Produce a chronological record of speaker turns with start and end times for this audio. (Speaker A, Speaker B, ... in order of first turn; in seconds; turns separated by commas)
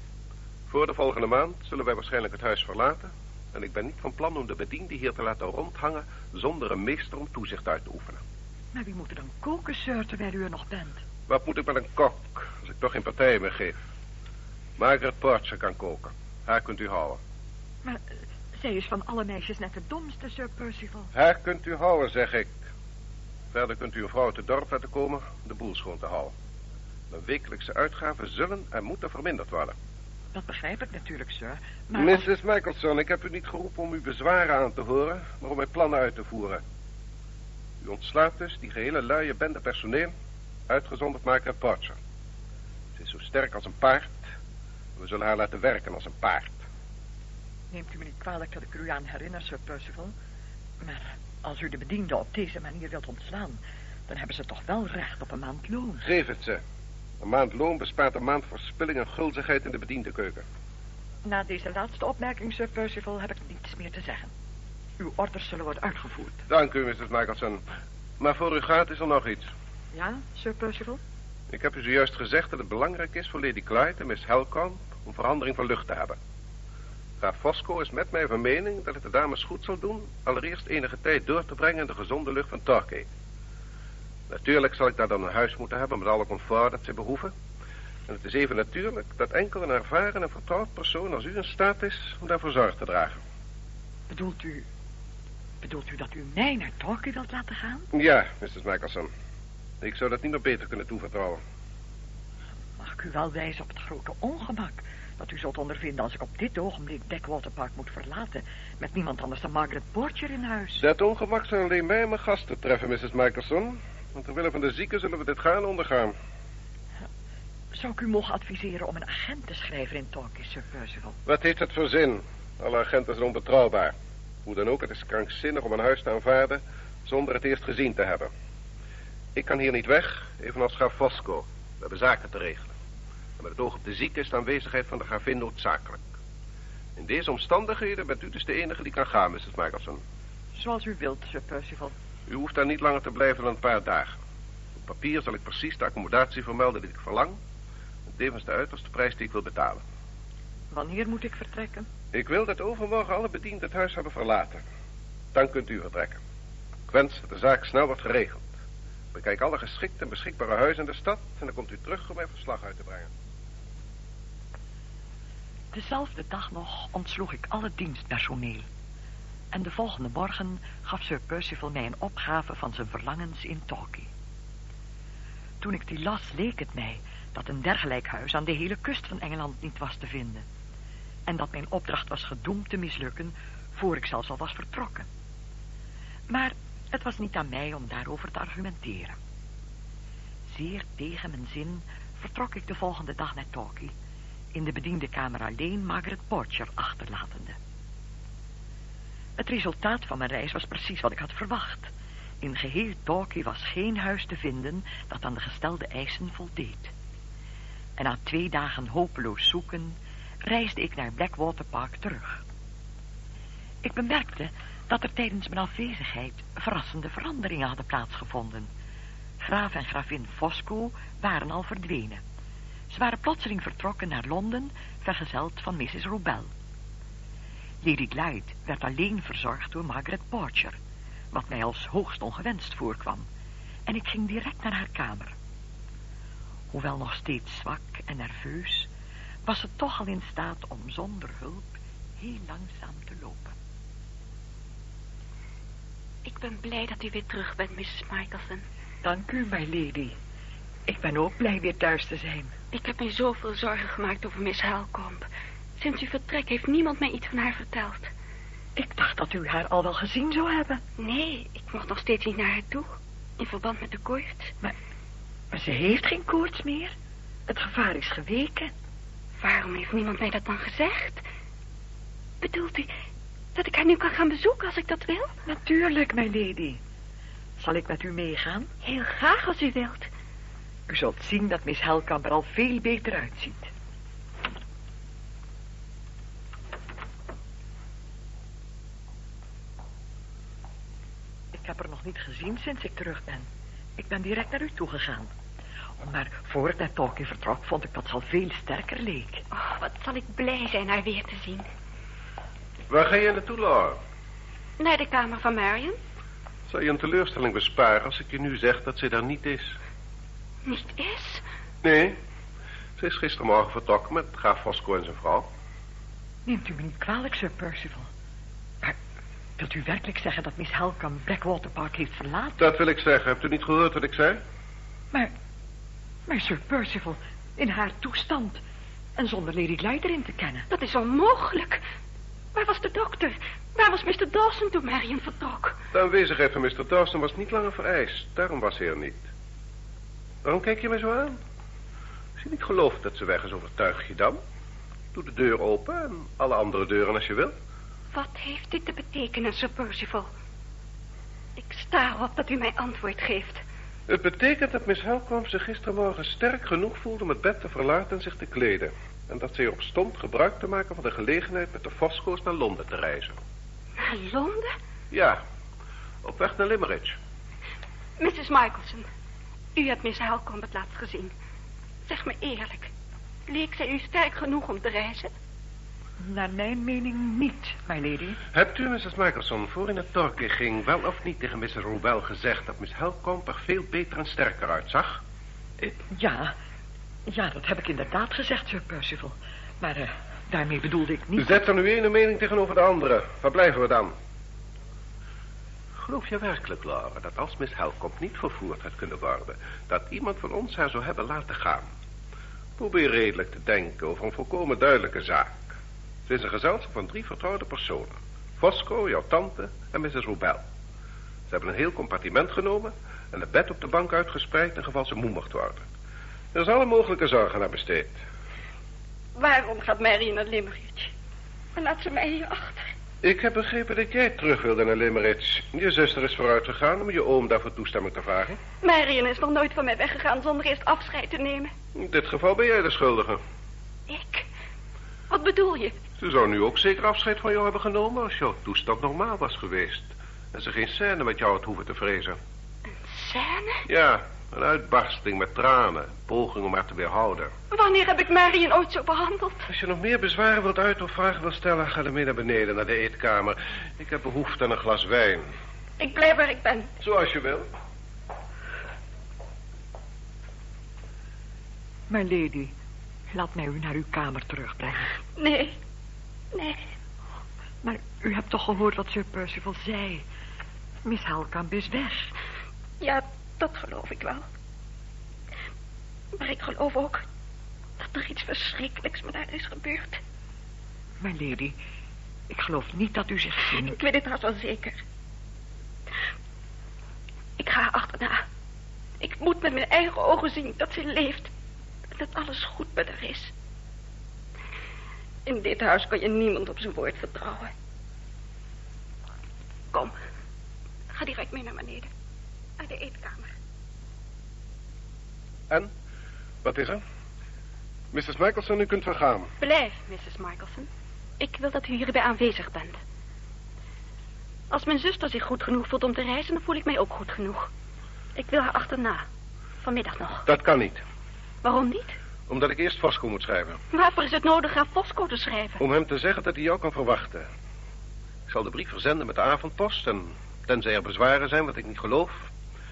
Speaker A: 0.7-8.2, Speaker B: 8.7-11.0, Speaker A: 11.3-13.7, Speaker A: 14.8-17.2, Speaker B: 17.8-21.1, Speaker A: 21.1-22.6, Speaker A: 23.5-26.3, Speaker A: 27.1-29.8, Speaker B: 30.3-32.3, Speaker A: 31.9-36.6, Speaker A: 37.8-40.1, Speaker A: 40.7-42.0, Speaker A: 43.0-44.2, Speaker A: 45.0-46.6, Speaker B: 47.7-50.1, Speaker B: 50.8-56.0, Speaker A: 56.0-56.6, Speaker A: 57.2-60.5, Speaker B: 61.2-64.3, Speaker B: 65.0-66.4, Speaker A: 66.5-67.6, Speaker A: 68.2-69.5, Speaker B: 69.9-71.0, Speaker A: 71.5-76.2, Speaker A: 77.2-83.1, Speaker A: 84.3-87.3, Speaker A: 88.1-93.2, Speaker B: 94.1-94.7, Speaker B: 95.6-97.9, Speaker A: 97.9-99.1, Speaker A: 99.8-101.4, Speaker B: 102.8-110.8, Speaker A: 110.8-116.1, Speaker B: 117.7-121.2, Speaker A: 121.3-123.9, Speaker A: 124.5-128.3, Speaker A: 129.3-132.7, Speaker A: 133.4-136.0, Speaker A: 137.0-140.0, Speaker B: 140.5-141.9, Speaker A: 142.3-144.2, Speaker A: 144.8-147.4, Speaker A: 148.1-149.8, Speaker B: 150.7-151.9, Speaker A: 152.1-154.6, Speaker A: 155.3-156.2, Speaker A: 156.9-158.5, Speaker A: 159.1-163.1, Speaker B: 165.7-168.7, Speaker B: 169.5-174.1, Speaker B: 175.6-180.5, Speaker B: 181.3-185.1, Speaker B: 186.3-189.2, Speaker B: 190.5-193.9, Speaker B: 194.5-197.6, Speaker B: 199.4-206.9, Speaker B: 208.0-212.4, Speaker B: 213.8-218.7, Speaker B: 219.4-222.2, Speaker B: 222.9-226.5, Speaker B: 227.8-230.8, Speaker B: 231.3-233.3, Speaker B: 233.9-235.3, Speaker B: 236.7-238.9, Speaker B: 239.4-243.6, Speaker C: 246.2-248.6, Speaker B: 249.0-250.2, Speaker B: 250.9-252.5, Speaker C: 252.7-255.3, Speaker C: 255.8-258.1, Speaker B: 258.8-260.8, Speaker C: 261.0-264.5, Speaker B: 265.5-266.9, Speaker B: 267.5-268.7, Speaker C: 269.4-271.2, Speaker C: 272.4-272.9, Speaker C: 273.6-275.3, Speaker B: 275.5-276.8, Speaker B: 277.6-278.7, Speaker C: 278.8-280.1, Speaker B: 280.9-283.7, Speaker B: 291.5-295.3, Speaker B: 296.0-299.4, Speaker C: 299.5-301.7, Speaker A: 302.9-304.0, Speaker C: 304.8-306.0, Speaker A: 306.7-309.8, Speaker C: 310.6-311.4, Speaker A: 311.8-312.2, Speaker A: 313.0-315.5, Speaker B: 316.5-318.1, Speaker B: 319.6-322.7, Speaker A: 322.6-324.4, Speaker B: 326.3-328.6, Speaker B: 329.2-330.7, Speaker C: 330.7-331.8, Speaker C: 332.5-335.8, Speaker A: 335.9-339.3, Speaker A: 340.4-341.4, Speaker A: 342.4-344.4, Speaker A: 345.1-347.6, Speaker C: 348.1-350.3, Speaker C: 351.6-353.6, Speaker A: 354.1-363.4, Speaker C: 364.0-364.7, Speaker A: 365.1-365.4, Speaker A: 366.2-367.2, Speaker C: 368.2-369.1, Speaker C: 369.8-371.3, Speaker C: 372.1-372.9, Speaker C: 373.5-375.3, Speaker B: 376.2-378.4, Speaker A: 378.5-385.2, Speaker B: 385.8-386.6, Speaker B: 387.3-391.6, Speaker A: 391.4-394.1, Speaker A: 396.0-401.9, Speaker A: 402.8-405.7, Speaker A: 406.3-410.6, Speaker A: 411.5-415.8, Speaker A: 416.5-418.2, Speaker C: 419.4-421.1, Speaker C: 421.8-422.9, Speaker A: 423.2-428.6, Speaker C: 428.8-431.7, Speaker A: 431.9-433.4, Speaker C: 434.1-434.5, Speaker C: 435.3-435.9, Speaker A: 436.2-442.4, Speaker C: 442.9-443.9, Speaker A: 443.9-447.5, Speaker C: 447.7-449.7, Speaker A: 449.7-455.5, Speaker C: 456.0-456.9, Speaker A: 457.0-457.7, Speaker B: 462.1-462.8, Speaker B: 463.3-465.1, Speaker C: 465.4-465.8, Speaker C: 466.5-466.9, Speaker B: 467.8-470.2, Speaker B: 471.0-472.3, Speaker C: 473.0-474.4, Speaker C: 476.4-477.2, Speaker C: 478.0-480.2, Speaker B: 481.2-481.8, Speaker B: 482.5-484.0, Speaker C: 483.7-485.0, Speaker C: 487.6-488.4, Speaker C: 489.2-491.5, Speaker C: 492.1-493.5, Speaker C: 495.5-497.7, Speaker C: 501.1-502.1, Speaker C: 502.8-503.5, Speaker A: 506.6-507.0, Speaker A: 508.1-509.5, Speaker C: 509.6-513.0, Speaker C: 514.7-517.7, Speaker C: 518.4-519.2, Speaker C: 519.8-520.5, Speaker A: 520.5-521.0, Speaker C: 521.6-522.2, Speaker A: 522.5-523.8, Speaker C: 523.9-525.8, Speaker A: 525.8-527.5, Speaker A: 528.5-532.5